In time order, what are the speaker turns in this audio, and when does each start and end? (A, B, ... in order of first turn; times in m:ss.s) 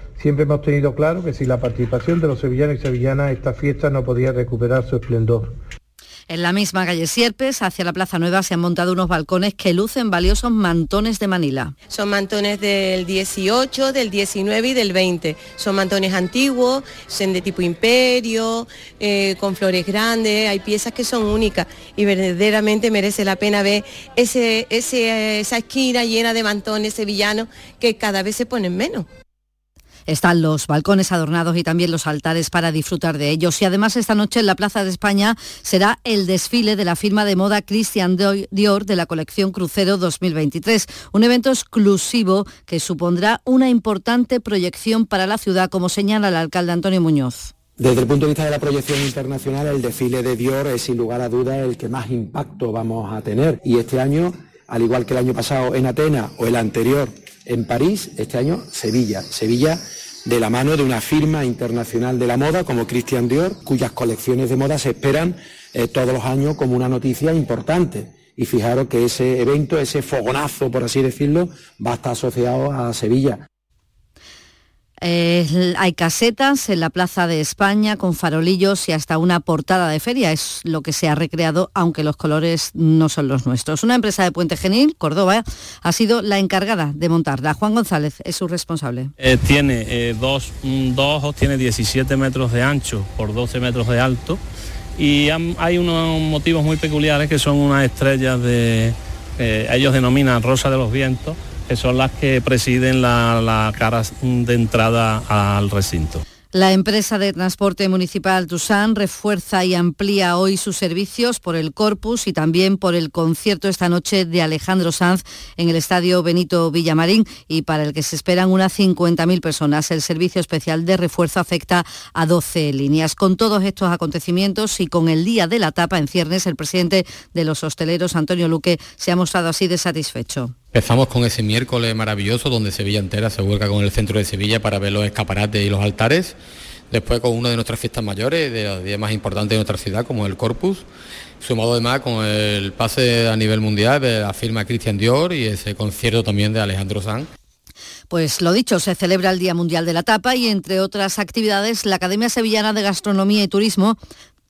0:00.2-0:05.5 A
0:06.3-0:11.7 B
0:11.9-0:29.1 C
0:30.1-0:47.5 B
0:47.8-1:13.4 D
1:15.0-1:29.1 B
1:29.2-1:34.4 E
1:35.0-1:46.2 E
1:46.5-2:10.5 B
2:10.7-2:16.4 F
2:16.9-2:20.8 F
2:21.4-2:27.3 F
2:28.1-2:34.0 B